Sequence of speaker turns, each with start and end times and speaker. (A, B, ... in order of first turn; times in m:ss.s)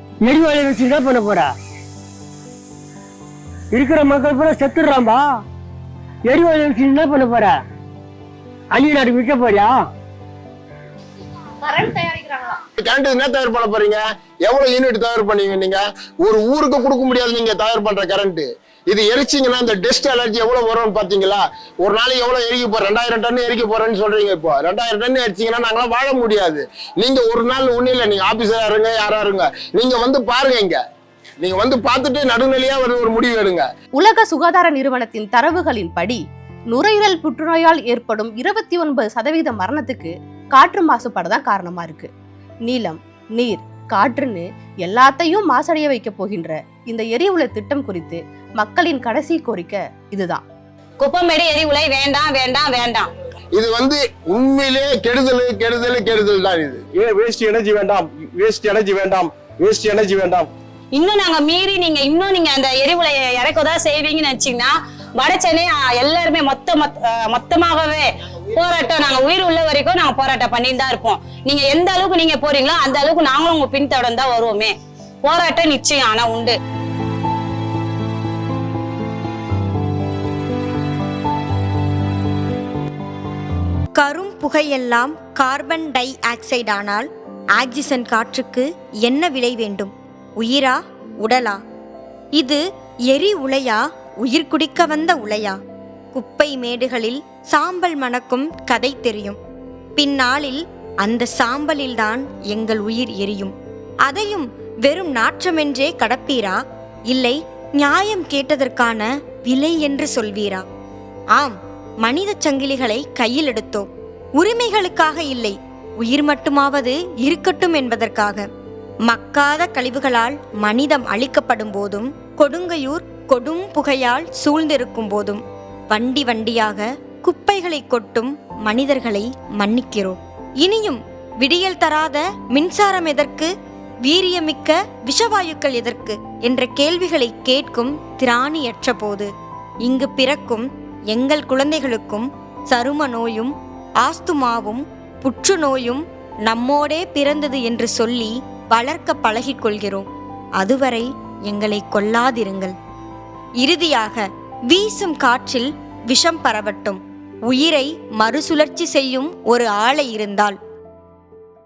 0:00.2-0:01.5 A
0:03.7-0:05.2 A
0:06.3-0:07.6 A
0:08.7-0:09.8 A
0:11.6-0:12.6 B
0:12.8-0:30.8 C
0:31.4-0:33.7 C
0:34.0-0:36.2 B
0:36.7-0:42.1 B
0:42.6-0:50.4 B
0:51.0-0:53.1 D
0:53.5-0:56.8 C
0:57.0-1:00.5 E
1:00.9-1:16.6 D
1:24.0-1:31.6 F
1:33.1-1:35.6 F
1:36.1-1:39.4 F
1:40.0-1:43.5 F
1:44.0-1:46.6 F
1:47.1-1:50.6 F
1:51.4-1:58.4 F
1:59.1-2:13.5 F
2:14.0-2:19.3 F
2:19.8-2:30.1 F
2:30.6-2:32.8 F
2:33.6-2:40.5 F